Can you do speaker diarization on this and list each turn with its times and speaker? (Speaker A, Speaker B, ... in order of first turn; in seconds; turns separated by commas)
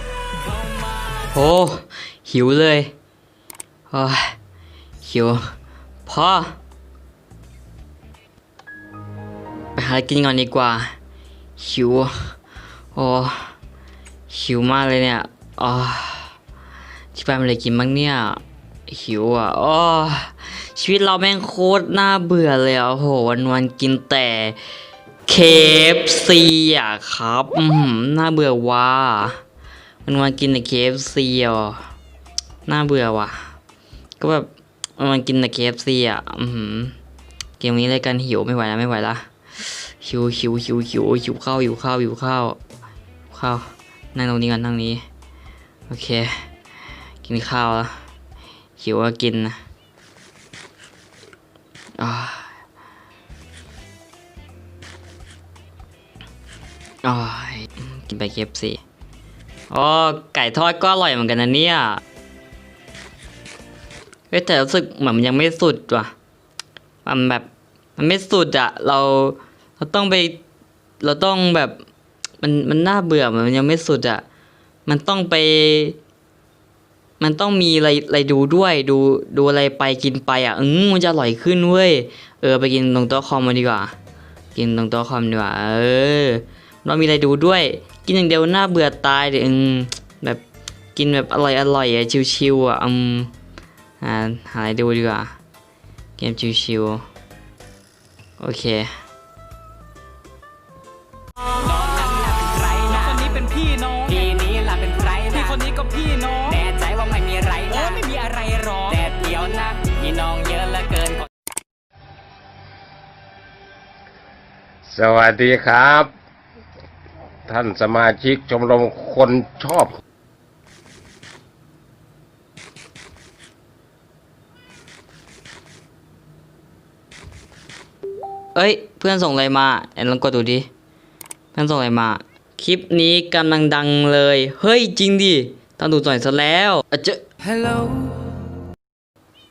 Speaker A: 1.2-2.9, Speaker A: 3.9-4.3, Speaker A: 5.0-5.5, Speaker A: 6.0-6.6, Speaker A: 9.7-10.9, Speaker A: 11.6-12.3, Speaker A: 12.9-13.5, Speaker A: 14.3-16.4, Speaker A: 17.1-24.6, Speaker A: 25.2-29.4, Speaker A: 30.0-31.8, Speaker A: 32.6-33.5, Speaker A: 34.2-36.9, Speaker A: 37.6-42.6, Speaker A: 43.3-45.0, Speaker A: 45.9-46.5, Speaker A: 47.2-48.0, Speaker A: 48.8-49.6, Speaker A: 52.0-52.5, Speaker A: 57.0-58.8, Speaker A: 59.7-62.0, Speaker A: 64.3-66.1, Speaker A: 67.0-70.4, Speaker A: 71.0-71.8, Speaker A: 72.4-74.2, Speaker A: 74.8-76.0, Speaker A: 77.2-83.9, Speaker A: 84.5-90.4, Speaker A: 90.9-93.3, Speaker A: 94.0-95.3, Speaker A: 96.2-97.0, Speaker A: 98.4-99.0, Speaker B: 101.6-103.2, Speaker C: 102.9-104.2, Speaker B: 104.0-105.6, Speaker C: 105.3-106.6, Speaker B: 106.5-111.3, Speaker C: 107.8-109.0, Speaker D: 114.9-116.1, Speaker D: 117.5-120.0, Speaker A: 128.5-130.7, Speaker A: 131.5-138.1